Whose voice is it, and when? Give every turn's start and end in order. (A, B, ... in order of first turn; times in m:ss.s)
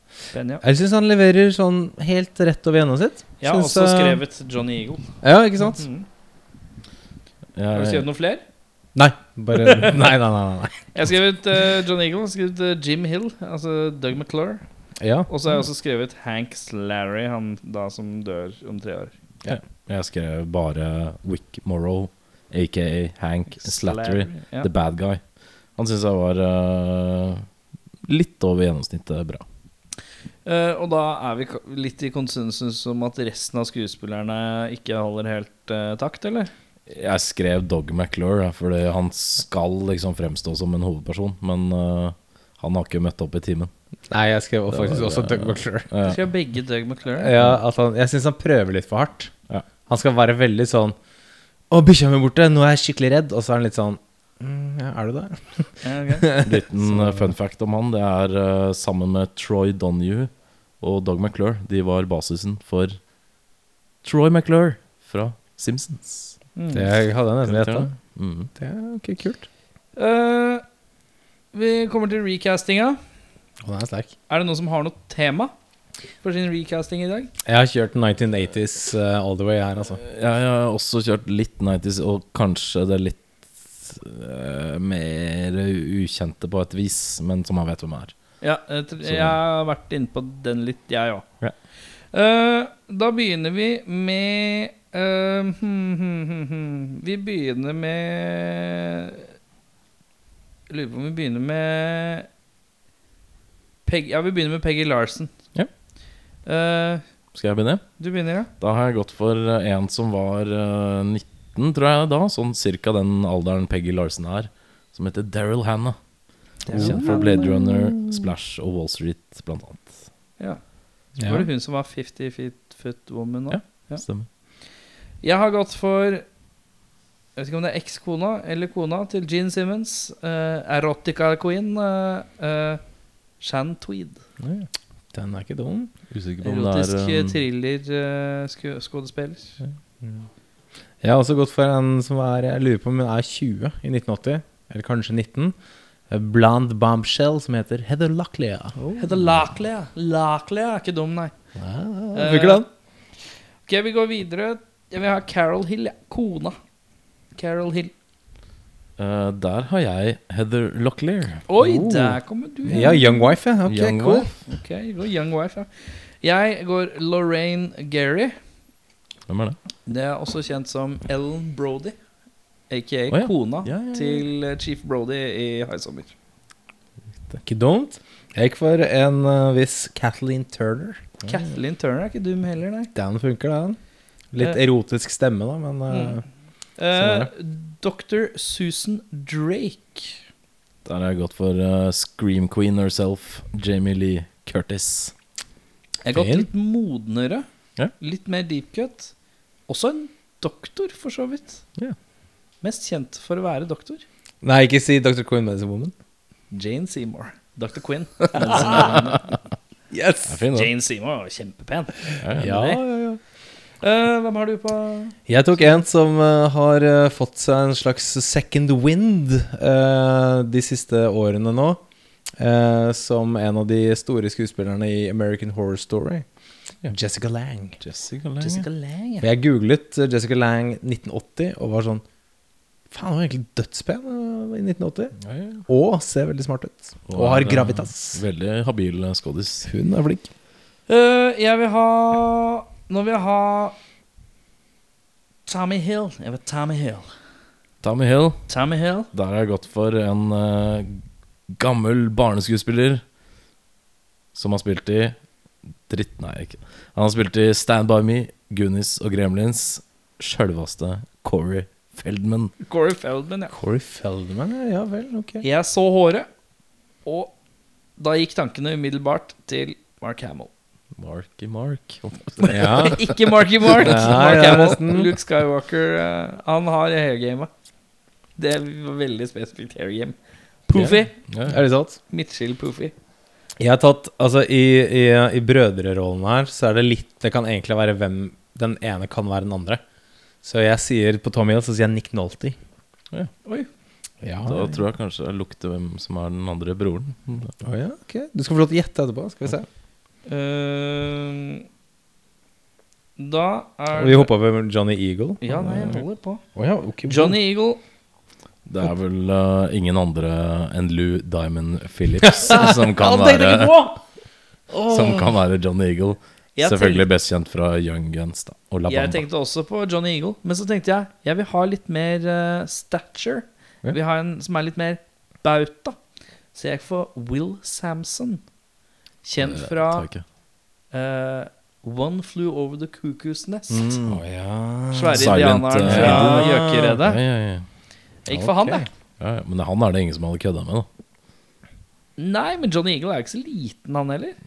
0:00.3-0:00.6 A
0:00.6-0:04.2 B
0:03.4-0:05.1 A
0:05.2-0:05.9 B
0:05.7-0:06.1 A
0:07.6-0:08.1 C
0:07.7-0:08.4 A
0:09.0-0:10.9 B
0:09.6-0:10.0 A
0:10.9-0:14.6 A
0:15.0-0:15.3 B
0:15.3-0:19.1 A
0:19.5-0:25.2 C
0:23.6-0:24.7 A
0:25.8-0:27.5 C
0:28.1-0:29.4 C
0:30.4-0:36.5 A
0:36.9-0:43.7 C
0:44.1-0:45.9 B
0:44.7-0:46.2 C
0:46.0-0:47.3 A
0:47.2-0:49.3 B
0:49.9-0:51.0 B
0:51.7-0:57.3 B
0:55.8-0:56.3 A
0:56.4-1:03.0 C
1:04.0-1:06.4 C
1:06.6-1:06.9 A
1:06.7-1:07.9 B
1:07.4-1:08.5 C
1:08.6-1:09.5 B
1:10.0-1:10.6 A
1:11.5-1:13.0 A
1:13.6-1:14.1 B
1:14.3-1:15.5 A
1:16.2-1:17.3 A
1:17.4-1:20.0 B
1:20.0-1:23.2 C
1:23.8-1:28.1 C
1:28.4-1:31.2 A
1:29.0-1:29.4 C
1:32.1-1:39.3 A
1:40.7-1:42.3 A
1:43.9-1:45.3 A
1:46.5-1:47.0 A
1:47.3-1:47.8 C
1:48.0-1:48.5 A
1:48.6-1:56.0 C
1:56.6-1:57.5 A
1:56.7-1:57.7 B
1:56.7-2:00.0 C
2:01.2-2:01.5 B
2:01.2-2:04.0 A
2:03.5-2:04.3 C
2:05.2-2:06.2 A
2:07.4-2:12.8 A
2:13.4-2:14.2 A
2:14.4-2:15.9 B
2:16.1-2:17.4 C
2:16.4-2:19.6 A
2:21.0-2:25.6 B
2:26.1-2:29.0 B
2:29.0-2:31.3 A
2:31.6-2:32.7 B
2:32.1-2:32.6 A
2:33.7-2:36.6 A
2:37.4-2:37.9 A
2:39.0-2:41.5 C
2:41.5-2:43.3 A
2:41.6-2:44.3 B
2:43.7-2:44.4 C
2:44.5-2:48.4 A
2:49.3-2:49.6 C
2:49.9-2:52.0 A
2:52.7-2:56.1 A
2:53.1-2:54.2 C
2:57.4-3:01.0 B
3:01.3-3:02.9 A
3:03.0-3:03.8 B
3:04.3-3:06.2 B
3:05.9-3:06.2 A
3:06.8-3:10.2 A
3:06.9-3:07.3 B
3:10.8-3:15.1 C
3:16.0-3:17.5 A
3:16.1-3:16.5 B
3:18.0-3:19.1 A
3:19.7-3:21.6 A
3:22.6-3:24.0 A
3:24.4-3:25.9 B
3:26.5-3:29.3 A
3:28.6-3:29.0 B
3:28.8-3:29.2 C
3:29.9-3:30.4 B
3:30.3-3:30.7 C
3:30.5-3:32.8 A
3:32.2-3:32.5 C
3:32.4-3:33.2 B
3:33.8-3:35.2 A
3:35.3-3:41.8 B
3:42.4-3:46.2 B
3:46.9-3:47.8 B
3:47.8-3:48.7 C
3:48.4-3:49.2 A
3:49.2-3:52.0 B
3:52.9-3:55.2 B
3:55.2-3:55.6 C
3:55.7-3:58.2 B
3:57.1-3:59.7 C
3:59.6-4:00.3 B
4:00.9-4:03.8 A
4:05.5-4:07.1 A
4:07.8-4:08.5 C
4:08.5-4:09.1 A
4:09.1-4:13.0 C
4:14.4-4:15.2 C
4:15.9-4:22.5 C
4:22.6-4:23.6 A
4:23.5-4:25.4 B
4:25.4-4:26.3 A
4:27.0-4:27.3 A
4:28.0-4:30.5 A
4:31.0-4:33.1 C
4:32.4-4:37.5 A
4:32.5-4:33.0 B
4:33.8-4:35.1 B
4:38.4-4:40.2 A
4:40.7-4:41.2 A
4:40.8-4:41.6 C
4:41.5-4:42.0 B
4:42.1-4:42.9 A
4:43.6-4:49.8 B
4:50.4-4:52.6 B
4:54.2-4:54.7 B
4:54.4-4:57.5 C
4:57.6-4:59.7 B
5:00.3-5:01.7 A
5:03.2-5:04.3 A
5:03.9-5:05.4 B
5:05.4-5:06.4 A
5:05.7-5:06.0 C
5:06.6-5:07.4 B
5:07.1-5:07.8 A
5:08.7-5:13.8 C
5:12.2-5:13.9 B
5:14.7-5:15.2 B
5:14.9-5:19.2 C
5:16.6-5:17.1 A
5:18.9-5:26.0 A
5:26.5-5:28.4 A
5:29.2-5:30.1 A
5:29.4-5:30.2 C
5:30.9-5:33.9 A
5:33.7-5:34.2 C
5:33.9-5:37.0 B
5:34.9-5:37.2 A
5:35.1-5:37.7 C
5:38.3-5:38.9 A
5:38.3-5:38.8 B
5:39.2-5:40.9 C
5:42.2-5:44.4 A